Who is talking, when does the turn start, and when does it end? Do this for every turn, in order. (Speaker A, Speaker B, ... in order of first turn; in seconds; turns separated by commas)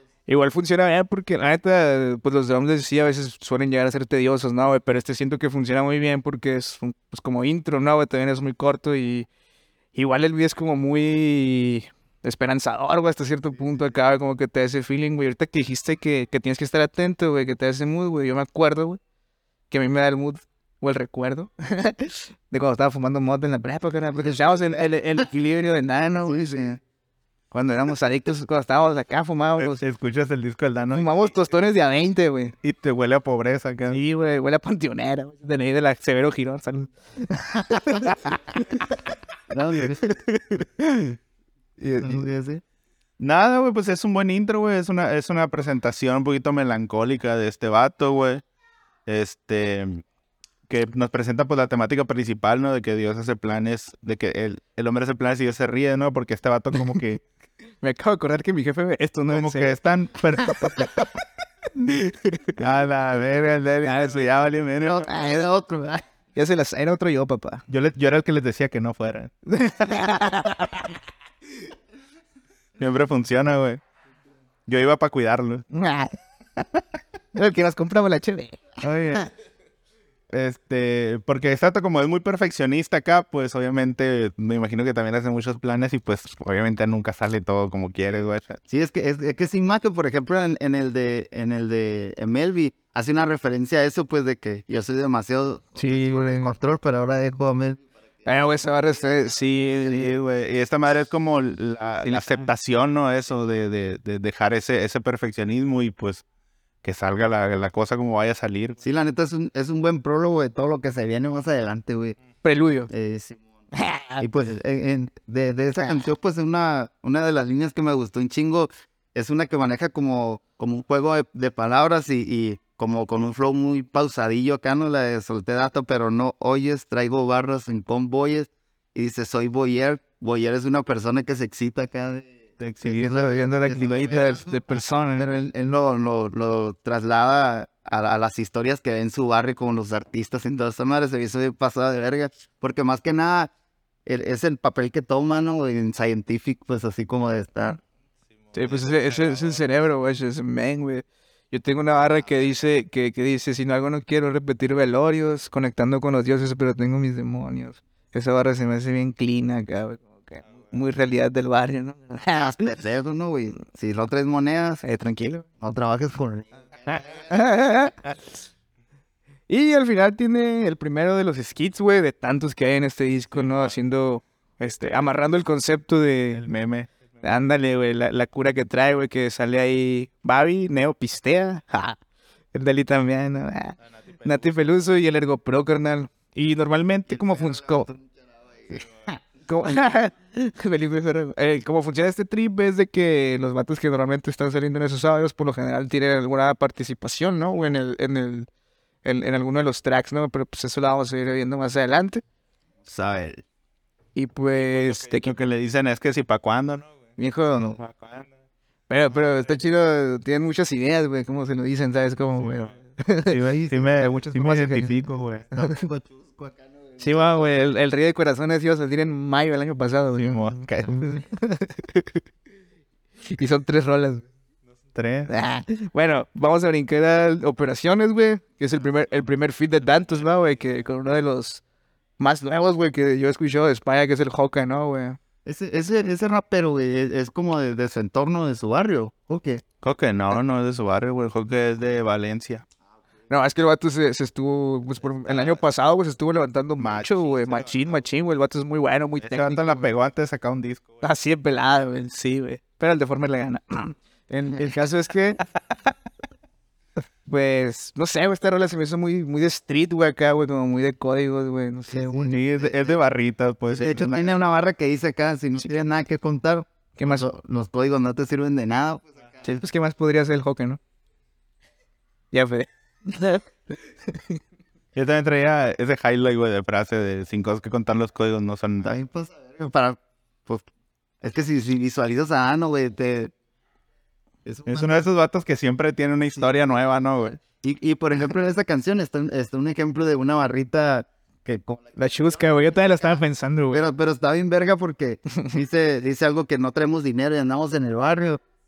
Speaker A: 0.3-9.3, Speaker A: 9.9-19.0, Speaker A: 19.7-26.8, Speaker A: 27.5-29.8, Speaker B: 29.6-31.2, Speaker A: 30.9-32.5, Speaker B: 32.6-34.0, Speaker A: 33.9-38.8, Speaker C: 39.5-40.0, Speaker A: 40.0-41.1, Speaker A: 41.8-42.2, Speaker C: 42.0-42.6, Speaker B: 43.2-48.4, Speaker B: 49.1-50.0, Speaker B: 50.7-57.2, Speaker A: 57.8-59.7, Speaker B: 59.3-60.9, Speaker A: 60.4-61.0, Speaker A: 61.9-62.5, Speaker B: 62.6-65.1, Speaker A: 63.9-64.2, Speaker A: 65.0-67.6, Speaker B: 67.7-69.3, Speaker A: 69.5-71.0, Speaker B: 72.8-73.8, Speaker B: 74.7-75.6, Speaker A: 75.7-76.2, Speaker A: 77.3-78.6, Speaker B: 78.8-79.3, Speaker B: 80.3-88.6, Speaker C: 88.7-97.8, Speaker A: 95.8-96.5, Speaker A: 98.2-100.1, Speaker B: 99.9-106.2, Speaker A: 102.0-102.5, Speaker B: 106.8-108.8, Speaker C: 108.8-112.2, Speaker A: 112.4-112.9, Speaker C: 112.9-113.4, Speaker A: 113.7-114.2, Speaker C: 114.2-132.3, Speaker B: 132.6-132.9, Speaker A: 132.8-135.3, Speaker C: 132.8-134.7, Speaker C: 135.2-143.5, Speaker C: 144.1-147.8, Speaker B: 148.5-149.6, Speaker A: 148.5-162.7, Speaker C: 162.3-164.8, Speaker A: 164.8-165.5, Speaker C: 165.6-167.3, Speaker A: 167.2-168.1, Speaker A: 169.5-176.5, Speaker B: 176.4-176.9, Speaker A: 177.2-182.0, Speaker A: 182.5-187.9, Speaker C: 187.1-188.0, Speaker A: 189.5-198.5, Speaker A: 199.0-202.2, Speaker C: 202.9-203.4, Speaker A: 204.2-205.4, Speaker B: 204.6-206.9, Speaker A: 207.2-207.8, Speaker B: 207.8-208.3, Speaker A: 208.9-214.9, Speaker B: 213.3-215.5, Speaker C: 215.5-217.0, Speaker A: 217.0-222.2, Speaker B: 220.3-221.0, Speaker A: 223.2-224.2, Speaker B: 224.9-225.3, Speaker A: 225.3-231.6, Speaker A: 232.2-235.2, Speaker C: 235.4-239.6, Speaker B: 239.8-242.7, Speaker A: 243.3-249.9, Speaker B: 246.8-247.7, Speaker B: 249.2-251.0, Speaker A: 251.0-255.4, Speaker A: 257.3-262.3, Speaker C: 261.9-262.8, Speaker B: 262.3-264.1, Speaker C: 263.8-269.0, Speaker A: 267.0-267.3, Speaker A: 269.4-270.8, Speaker A: 272.3-273.5, Speaker A: 274.1-274.4, Speaker B: 274.9-278.9, Speaker C: 278.8-280.6, Speaker C: 281.2-283.3, Speaker C: 284.4-285.0, Speaker B: 284.7-287.4, Speaker C: 287.6-291.8, Speaker A: 292.0-293.8, Speaker C: 293.7-298.4